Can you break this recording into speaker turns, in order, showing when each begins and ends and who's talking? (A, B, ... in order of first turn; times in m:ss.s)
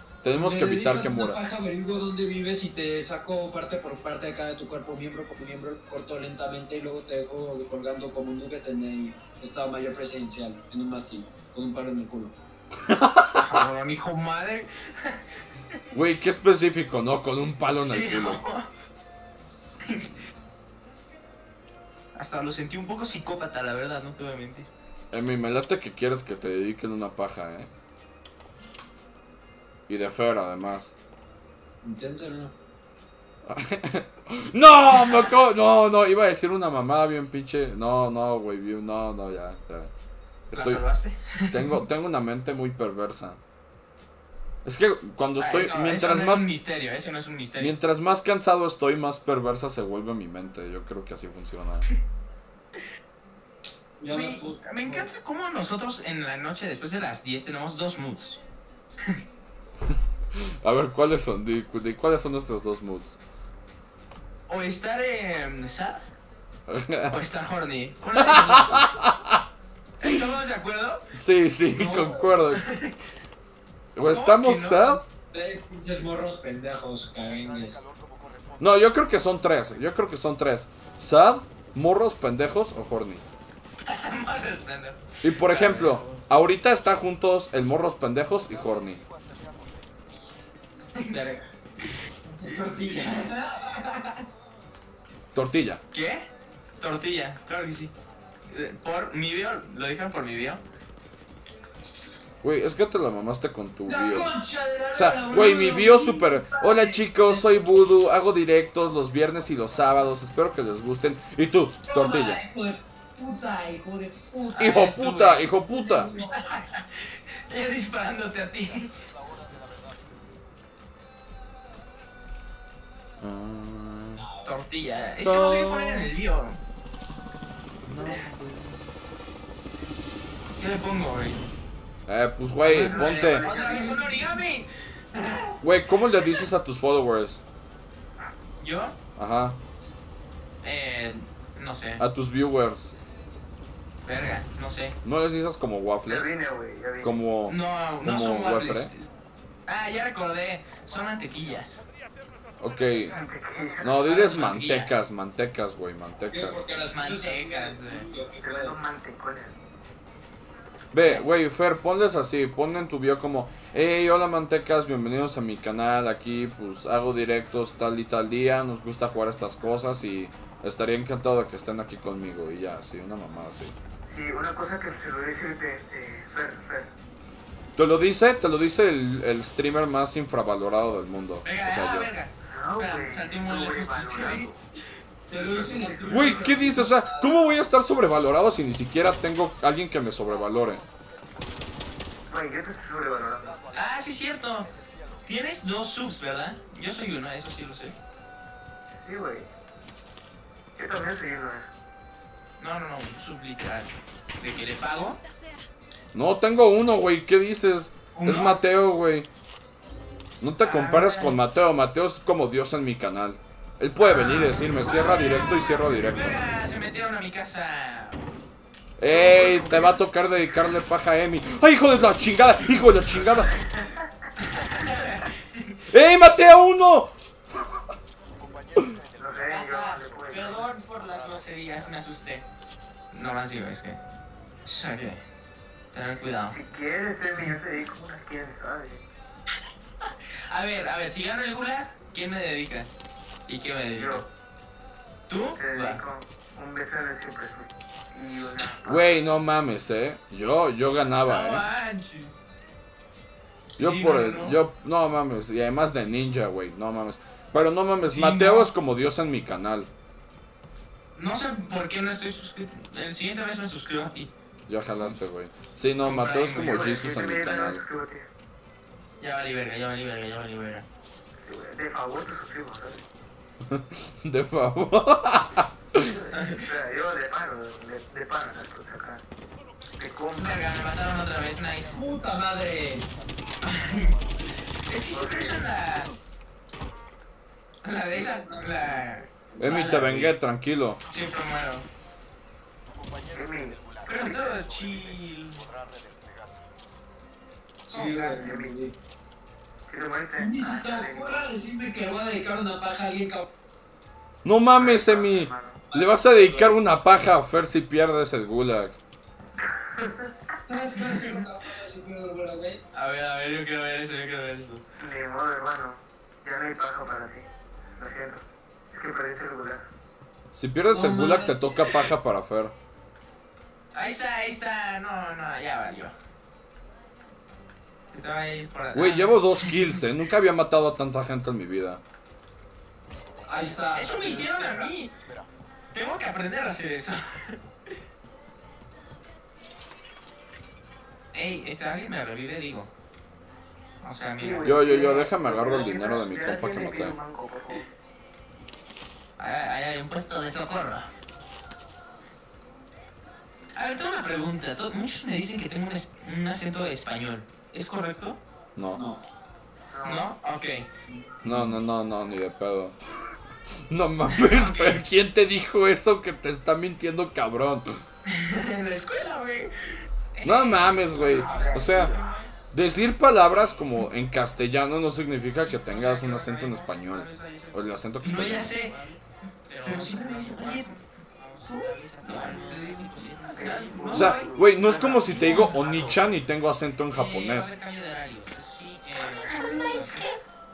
0:00.2-0:01.4 A
0:00.3-0:12.4 B
0:12.8-0:13.7 A
0:13.4-0:15.2 C
0:15.9-0:18.4 A
0:17.8-0:18.7 C
0:19.8-0:20.2 C
0:22.2-0:24.7 C
0:25.1-0:27.7 A
0:29.9-0:30.9 A
0:31.8-0:32.5 B
0:33.4-0:39.9 A
0:40.5-0:40.8 A
0:40.5-0:41.7 C
0:41.5-0:43.4 A
0:44.6-0:46.5 A
0:45.4-0:47.8 C
0:47.6-0:51.8 A
0:54.0-0:55.1 B
0:54.1-0:58.4 C
1:00.4-1:03.2 A
1:04.5-1:06.1 C
1:06.7-1:07.2 A
1:07.1-1:09.0 C
1:08.2-1:09.4 A
1:10.0-1:11.1 C
1:11.2-1:12.6 A
1:11.7-1:12.2 B
1:12.5-1:13.0 C
1:14.0-1:15.0 A
1:14.1-1:15.0 C
1:15.3-1:17.8 B
1:18.6-1:23.2 A
1:23.9-1:26.2 C
1:25.2-1:29.0 A
1:31.0-1:31.4 C
1:32.4-1:34.1 B
1:32.5-1:33.4 C
1:35.3-1:35.8 A
1:35.9-1:36.3 C
1:36.8-1:37.9 C
1:38.5-1:40.6 C
1:42.4-1:44.4 A
1:43.9-1:47.4 B
1:44.9-1:52.4 A
1:51.9-1:54.6 B
1:54.6-1:55.4 C
1:54.6-1:56.1 A
1:55.7-1:56.4 B
1:56.3-1:58.9 C
2:03.2-2:04.2 A
2:04.2-2:04.5 B
2:04.4-2:06.6 C
2:05.0-2:06.1 A
2:07.8-2:08.8 A
2:10.6-2:11.4 C
2:12.1-2:13.5 A
2:12.7-2:15.6 C
2:12.8-2:14.0 D
2:13.5-2:14.1 B
2:15.6-2:17.4 A
2:18.6-2:19.0 C
2:19.2-2:19.6 A
2:20.6-2:22.0 C
2:22.0-2:23.0 A
2:24.1-2:25.0 C
2:25.0-2:26.4 A
2:26.1-2:27.1 D
2:27.0-2:28.9 A
2:27.5-2:29.1 C
2:29.7-2:31.8 C
2:32.6-2:33.2 A
2:33.1-2:34.0 D
2:33.8-2:36.7 A
2:34.0-2:34.9 C
2:36.3-2:38.8 B
2:36.8-2:38.1 C
2:38.4-2:39.6 D
2:40.9-2:53.8 A
2:54.0-2:56.9 D
2:57.8-3:02.1 A
3:01.4-3:04.6 C
3:02.5-3:04.5 D
3:05.3-3:07.3 B
3:05.3-3:06.8 D
3:05.9-3:06.5 C
3:06.1-3:10.8 A
3:12.3-3:13.7 D
3:13.7-3:14.7 C
3:15.2-3:18.0 C
3:19.0-3:19.5 D
3:20.8-3:21.7 D
3:22.6-3:25.2 C
3:26.1-3:29.3 A
3:28.1-3:28.6 C
3:30.4-3:36.4 A
3:30.6-3:31.4 C
3:34.0-3:38.2 C
3:39.0-3:43.5 A
3:39.1-3:39.9 C
3:43.6-3:44.0 D
3:44.4-3:45.8 C
3:45.9-3:47.8 A
3:49.2-3:50.8 D
3:49.5-3:52.5 C
3:53.1-3:54.0 C
3:54.6-3:55.2 C
3:55.9-3:56.6 C
3:56.5-3:59.0 D
4:00.5-4:02.9 C
4:03.5-4:04.3 C
4:04.0-4:04.3 D
4:05.3-4:06.0 C
4:05.6-4:09.1 D
4:08.8-4:11.6 A
4:11.3-4:12.4 C
4:13.8-4:14.6 C
4:13.8-4:19.9 A
4:18.0-4:18.7 C
4:21.2-4:24.3 C
4:24.7-4:27.8 A
4:26.0-4:27.0 C
4:26.7-4:28.3 D
4:29.2-4:30.9 C
4:31.4-4:33.0 D
4:33.7-4:36.2 A
4:36.0-4:39.2 D
4:36.3-4:36.7 C
4:40.0-4:40.8 D
4:40.4-4:42.1 C
4:41.9-4:43.1 B
4:43.6-4:44.2 C
4:44.9-4:46.1 C
4:45.1-4:45.8 D
4:47.8-4:50.3 C
4:48.3-4:48.8 B
4:49.5-4:50.2 B
4:49.6-4:51.0 A
4:51.1-4:51.9 C
4:53.3-4:53.9 D
4:54.0-4:55.7 C
4:57.9-4:59.0 B
4:57.9-4:58.4 C
4:58.4-4:58.8 D
4:59.9-5:01.5 D
5:00.4-5:03.5 B
5:04.4-5:09.0 A
5:04.8-5:05.9 D
5:09.8-5:10.3 D
5:10.7-5:12.8 B
5:12.9-5:14.8 C
5:15.0-5:19.9 D
5:20.5-5:22.8 A
5:20.9-5:21.9 B
5:23.9-5:26.2 C
5:28.1-5:29.8 C
5:28.9-5:32.0 A
5:33.5-5:34.9 B
5:34.0-5:35.2 C
5:35.9-5:37.6 C
5:41.3-5:42.9 C
5:44.0-5:44.7 C
5:44.4-5:47.9 D
5:44.6-5:47.2 A
5:49.4-5:51.1 C
5:53.8-5:58.4 C
5:58.8-5:59.0 A
5:59.0-5:59.2 B
5:59.9-6:00.3 D
6:00.0-6:00.9 C
6:01.1-6:01.7 B
6:01.4-6:03.3 A
6:03.9-6:08.0 A
6:04.3-6:05.0 C
6:08.3-6:12.5 C
6:10.4-6:12.1 A
6:11.1-6:12.3 D
6:12.7-6:18.9 A
6:15.6-6:24.5 C
6:22.4-6:26.0 D
6:24.1-6:27.8 A
6:25.3-6:26.1 C
6:27.2-6:30.3 C
6:29.4-6:30.2 D